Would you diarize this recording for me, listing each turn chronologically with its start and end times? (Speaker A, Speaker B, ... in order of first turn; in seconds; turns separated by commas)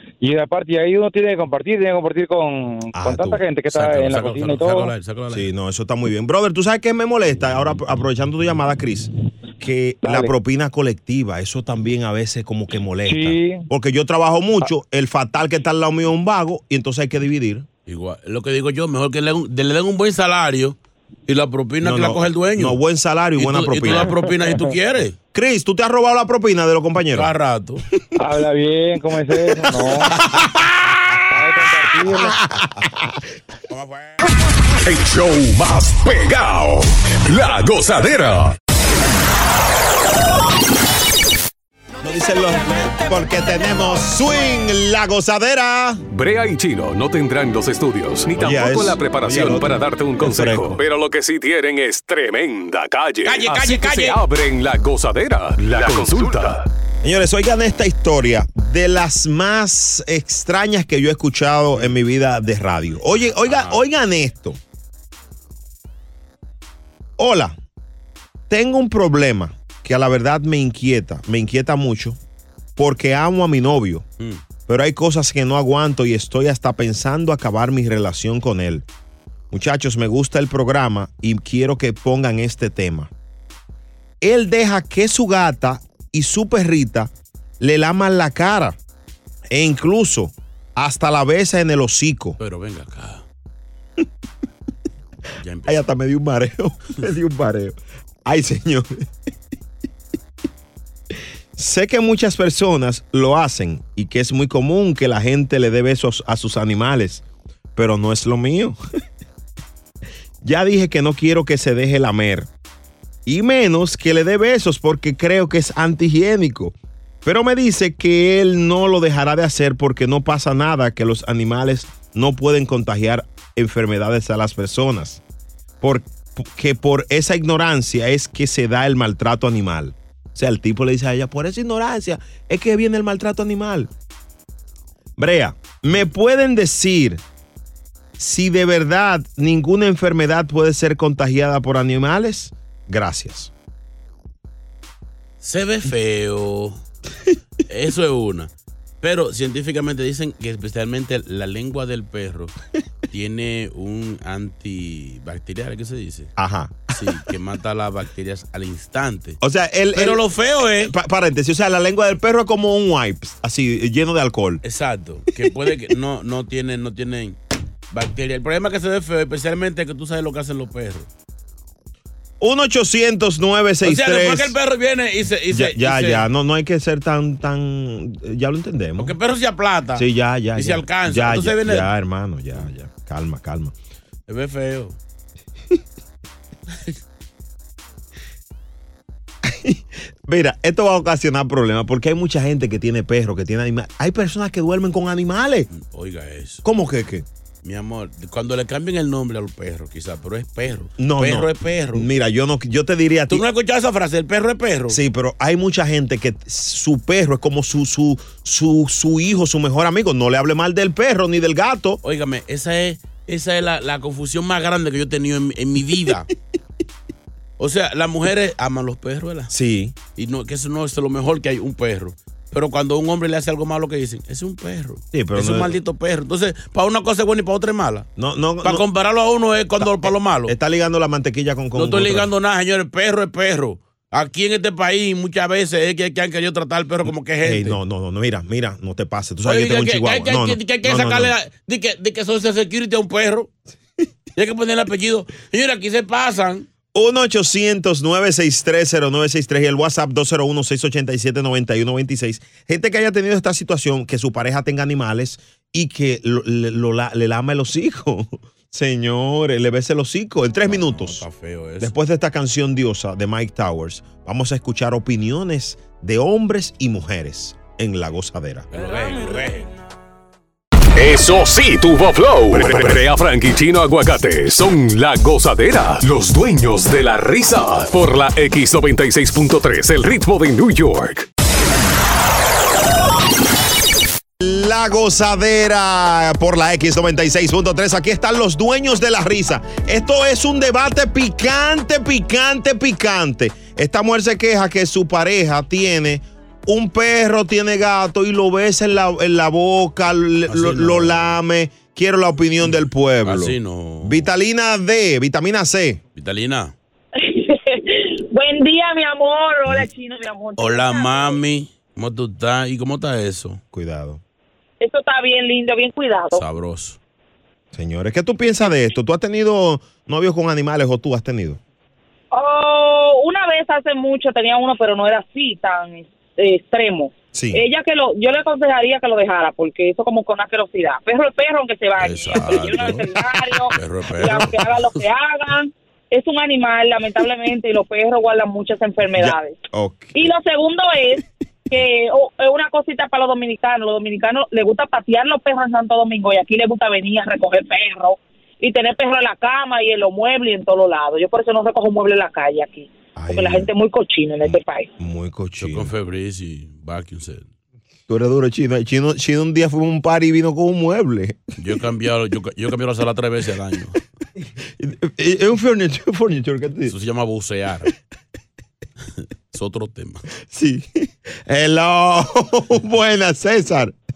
Speaker A: 0.2-4.9, Speaker B: 2.9-3.4, Speaker C: 3.7-5.5, Speaker B: 5.3-17.7, Speaker A: 10.0-10.3, Speaker A: 13.1-13.7, Speaker C: 17.9-20.8, Speaker C: 21.3-22.8, Speaker B: 21.8-24.1, Speaker C: 23.4-25.1, Speaker B: 25.3-27.3, Speaker C: 27.1-27.8, Speaker A: 28.2-30.1, Speaker A: 31.3-32.4, Speaker B: 32.0-33.1, Speaker C: 33.7-34.2, Speaker D: 34.8-38.5, Speaker B: 42.0-46.0, Speaker D: 46.1-56.7, Speaker B: 48.4-50.8, Speaker C: 53.2-54.2, Speaker C: 56.0-56.5, Speaker B: 57.0-64.6, Speaker C: 63.1-63.8, Speaker B: 67.2-67.6, Speaker B: 68.5-72.2, Speaker B: 72.8-74.1, Speaker B: 74.7-78.9, Speaker B: 79.5-83.1, Speaker B: 84.2-88.8, Speaker B: 89.5-92.4, Speaker C: 92.4-93.2, Speaker C: 95.4-95.8, Speaker B: 95.7-98.9, Speaker B: 101.6-107.2, Speaker B: 107.8-108.8, Speaker B: 110.4-112.5, Speaker B: 113.3-125.2, Speaker B: 125.8-133.9, Speaker B: 135.2-137.2, Speaker B: 138.2-143.5, Speaker C: 145.4-146.8, Speaker C: 147.7-148.5, Speaker C: 149.0-152.5, Speaker C: 153.1-156.3, Speaker B: 156.4-156.9, Speaker C: 156.9-159.4, Speaker B: 159.4-160.2, Speaker C: 159.9-160.9, Speaker B: 160.8-164.6, Speaker C: 164.6-167.4, Speaker C: 167.9-171.1, Speaker B: 172.4-174.6, Speaker C: 173.8-176.3, Speaker B: 175.5-179.2, Speaker C: 179.0-181.9, Speaker B: 179.9-183.7, Speaker C: 184.3-185.0, Speaker B: 189.4-195.7, Speaker C: 195.7-196.6, Speaker B: 196.7-197.3, Speaker C: 197.6-202.1, Speaker B: 201.0-203.4, Speaker C: 203.3-205.0, Speaker B: 204.9-212.0, Speaker C: 212.0-216.3, Speaker C: 217.6-219.5, Speaker B: 219.5-219.9, Speaker C: 220.2-228.1, Speaker B: 225.1-225.7, Speaker B: 228.2-228.8, Speaker C: 228.6-230.5, Speaker B: 229.8-232.3, Speaker C: 231.8-237.8, Speaker B: 237.4-241.3, Speaker C: 239.5-243.5, Speaker C: 244.4-246.7, Speaker B: 246.9-261.2, Speaker C: 260.7-261.9, Speaker B: 261.8-268.7, Speaker C: 268.7-269.7, Speaker D: 271.0-281.3, Speaker B: 284.4-306.0, Speaker C: 300.5-301.3, Speaker C: 302.6-304.3, Speaker C: 306.2-306.7, Speaker E: 307.2-311.4, Speaker C: 310.6-313.6, Speaker B: 313.7-314.2, Speaker E: 314.8-316.4, Speaker C: 316.3-317.0, Speaker B: 317.7-321.6, Speaker E: 322.3-339.6, Speaker B: 327.3-327.6, Speaker C: 332.0-333.1, Speaker C: 333.7-334.8, Speaker B: 339.2-340.3, Speaker E: 340.1-354.9, Speaker B: 353.2-353.7, Speaker B: 354.4-355.9, Speaker C: 355.6-357.5, Speaker B: 358.1-361.4, Speaker C: 361.6-364.0, Speaker B: 364.8-366.9, Speaker C: 366.9-367.9, Speaker C: 369.5-370.3, Speaker B: 370.5-373.9